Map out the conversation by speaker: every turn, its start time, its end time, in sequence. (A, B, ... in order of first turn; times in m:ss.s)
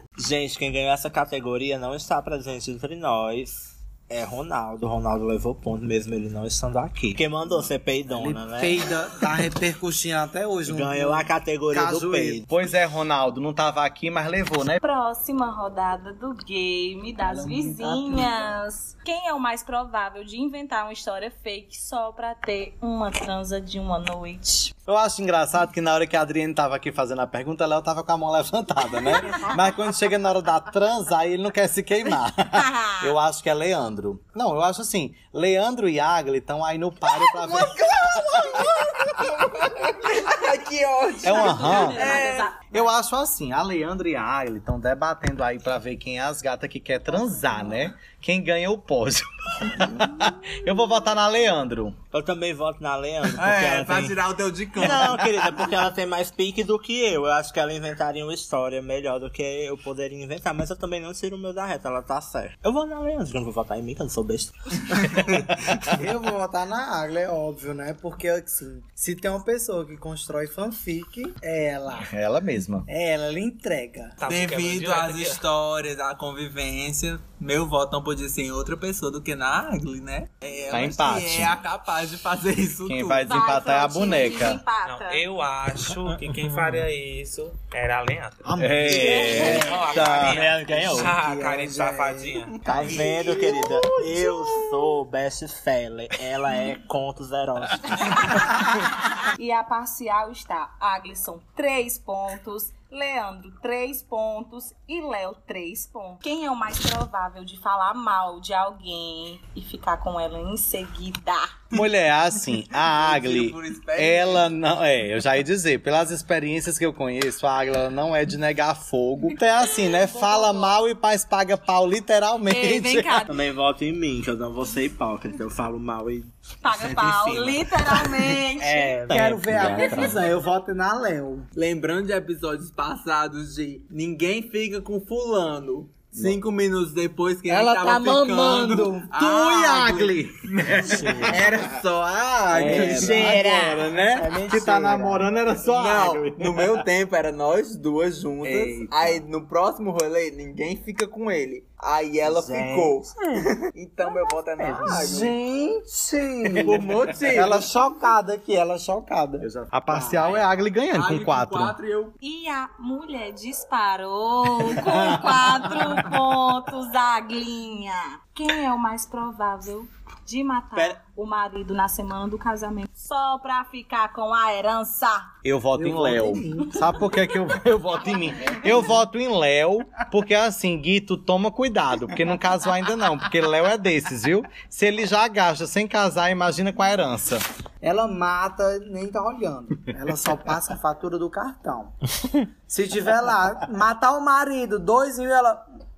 0:00.2-0:08.9 A
0:08.1-0:12.4 B
0:10.7-0:12.5 A
0:12.4-0:14.8 C
0:14.8-0:24.7 D
0:17.2-0:18.5 B
0:24.8-0:38.9 C
0:32.6-0:33.2 D
0:37.7-0:42.5 E
0:41.2-0:42.9 D
0:41.2-0:52.0 C
0:52.1-0:54.2 A
0:53.3-0:55.5 E
0:54.8-1:05.4 A
1:05.8-1:12.1 B
1:12.1-1:12.9 C
1:12.9-1:14.2 B
1:14.2-1:15.4 F
1:14.3-1:23.3 E
1:20.7-1:21.6 C
1:22.9-1:24.6 C
1:23.2-1:25.2 D
1:24.8-1:32.8 F
1:28.4-1:32.3 B
1:28.6-1:31.1 C
1:28.9-1:29.4 D
1:30.4-1:31.0 A
1:32.6-1:34.8 E
1:32.6-1:38.6 A
1:39.4-1:51.6 D
1:51.7-2:03.2 C
1:52.6-1:54.5 E
1:59.7-2:00.8 D
2:02.5-2:03.4 D
2:03.3-2:06.3 A
2:06.6-2:09.1 D
2:06.7-2:08.0 E
2:08.5-2:09.9 A
2:09.1-2:11.5 B
2:09.2-2:10.2 C
2:09.7-2:10.2 D
2:11.6-2:23.4 E
2:17.5-2:19.1 B
2:19.1-2:21.5 C
2:20.9-2:21.3 A
2:22.5-2:26.8 C
2:22.5-2:25.3 A
2:22.6-2:23.0 B
2:25.6-2:35.4 E
2:28.4-2:29.2 C
2:32.2-2:33.5 A
2:34.8-2:39.5 B
2:36.6-2:37.7 E
2:39.4-2:41.8 C
2:39.9-2:40.2 A
2:40.9-2:42.2 E
2:42.2-2:55.3 D
2:50.8-2:51.0 A
2:55.4-3:07.4 C
2:55.8-2:57.1 B
3:07.8-3:11.9 B
3:12.7-3:15.6 B